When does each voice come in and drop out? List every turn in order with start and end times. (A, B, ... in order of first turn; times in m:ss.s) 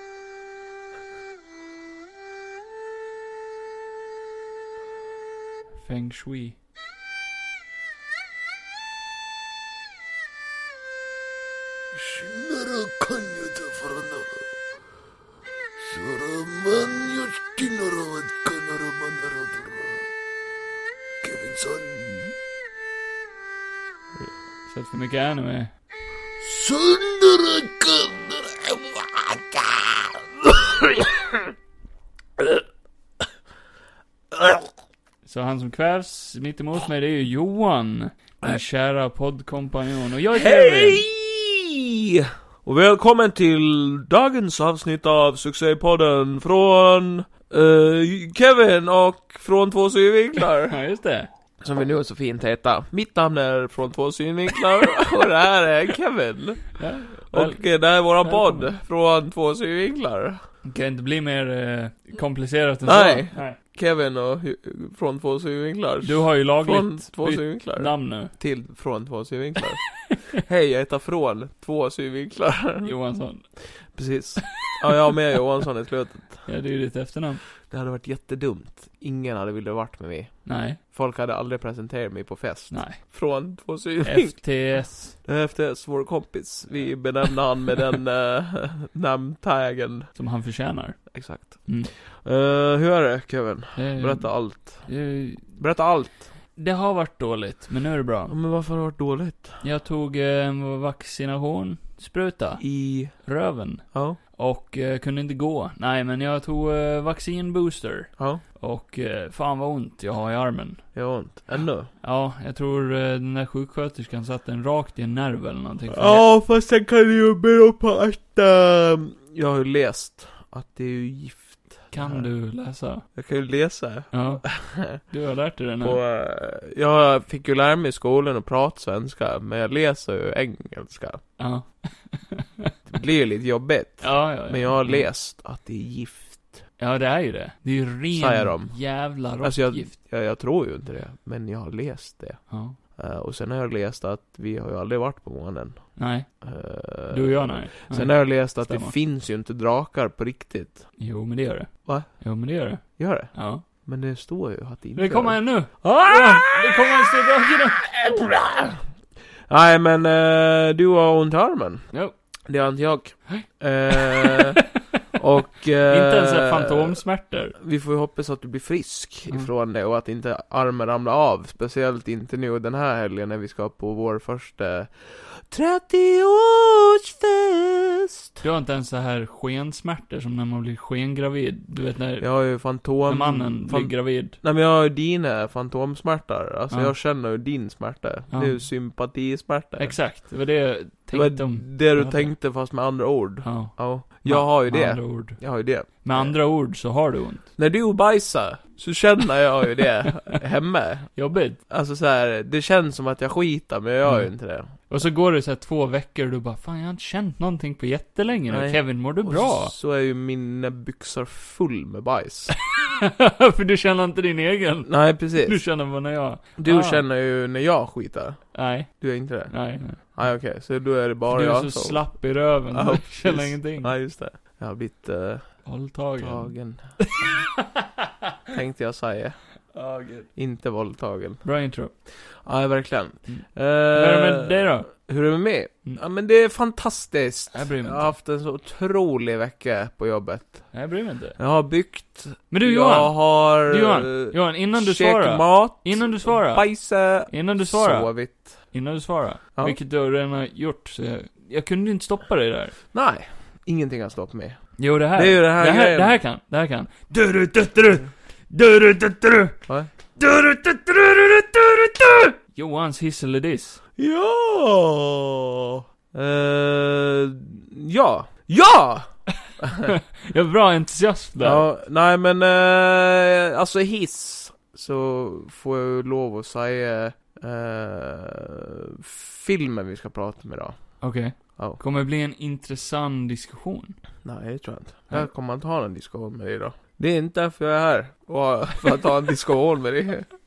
0:05.8-0:06.6 A
0:12.2-0:14.2 B
0:16.0-0:19.7 B
0:21.2-0:22.2 B
0:24.2-0:25.7 A
0:26.7-0:28.1 B
0:34.3-0:34.6 C
0:35.2-0:41.0 A
0:40.3-0:50.8 C
0:50.7-0:51.3 A
0:51.6-1:00.4 C
0:56.8-0:57.6 A
0:58.2-0:58.7 A
1:00.6-1:03.6 A
1:02.8-1:13.0 C
1:06.0-1:08.3 A
1:12.8-1:13.5 A
1:13.9-1:16.5 C
1:16.5-1:17.4 A
1:17.7-1:24.4 C
1:20.4-1:20.8 A
1:22.7-1:23.0 A
1:24.0-1:25.2 A
1:25.2-1:30.1 C
1:30.2-1:31.9 A
1:31.1-1:34.9 C
1:33.8-1:35.5 A
1:35.6-1:36.3 C
1:36.6-1:38.4 A
1:38.3-1:39.6 C
1:39.6-1:50.8 A
1:42.6-1:43.3 C
1:43.9-1:44.2 C
1:48.2-1:48.4 C
1:51.0-1:51.9 C
1:52.0-1:56.3 A
1:55.9-2:02.3 C
2:01.9-2:03.1 A
2:03.2-2:05.0 C
2:04.1-2:06.0 A
2:05.8-2:11.2 C
2:11.4-2:12.7 A
2:12.9-2:16.6 C
2:14.0-2:15.1 A
2:16.8-2:19.9 A
2:18.1-2:18.8 C
2:19.4-2:30.9 C
2:22.5-2:22.8 A
2:26.0-2:26.3 A
2:27.1-2:28.9 A
2:31.0-2:33.6 A
2:31.9-2:32.2 C
2:33.0-2:38.8 C
2:35.0-2:37.8 A
2:39.5-2:41.9 C
2:42.5-2:44.6 C
2:43.3-2:44.5 A
2:45.2-2:47.0 C
2:45.8-2:47.6 A
2:47.6-2:58.4 C
2:58.4-3:04.4 A
3:02.2-3:10.2 C
3:08.3-3:08.6 A
3:09.8-3:12.3 A
3:11.1-3:16.4 C
3:13.4-3:17.5 A
3:17.6-3:21.1 C
3:21.2-3:21.6 A
3:21.7-3:24.7 C
3:24.0-3:29.7 A
3:28.5-3:32.6 C
3:32.7-3:37.0 A
3:34.9-3:35.6 C
3:36.6-3:42.0 C
3:38.5-3:40.0 A
3:41.3-3:43.9 A
3:42.7-3:45.6 C
3:45.6-3:48.0 A
3:46.2-3:47.5 C
3:48.5-3:49.4 C
3:49.7-3:50.3 A
3:50.3-3:51.4 C
3:51.4-3:51.9 A
3:52.4-4:00.8 C
3:53.3-3:54.9 A
3:57.5-3:58.1 A
4:00.7-4:01.4 A
4:01.4-4:08.6 C
4:02.5-4:06.7 A
4:07.3-4:12.8 A
4:12.9-4:16.2 C
4:14.8-4:19.6 A
4:20.2-4:23.8 A
4:24.0-4:29.9 C
4:29.8-4:31.6 A
4:31.4-4:41.0 C
4:41.0-4:44.0 A
4:44.2-4:50.3 C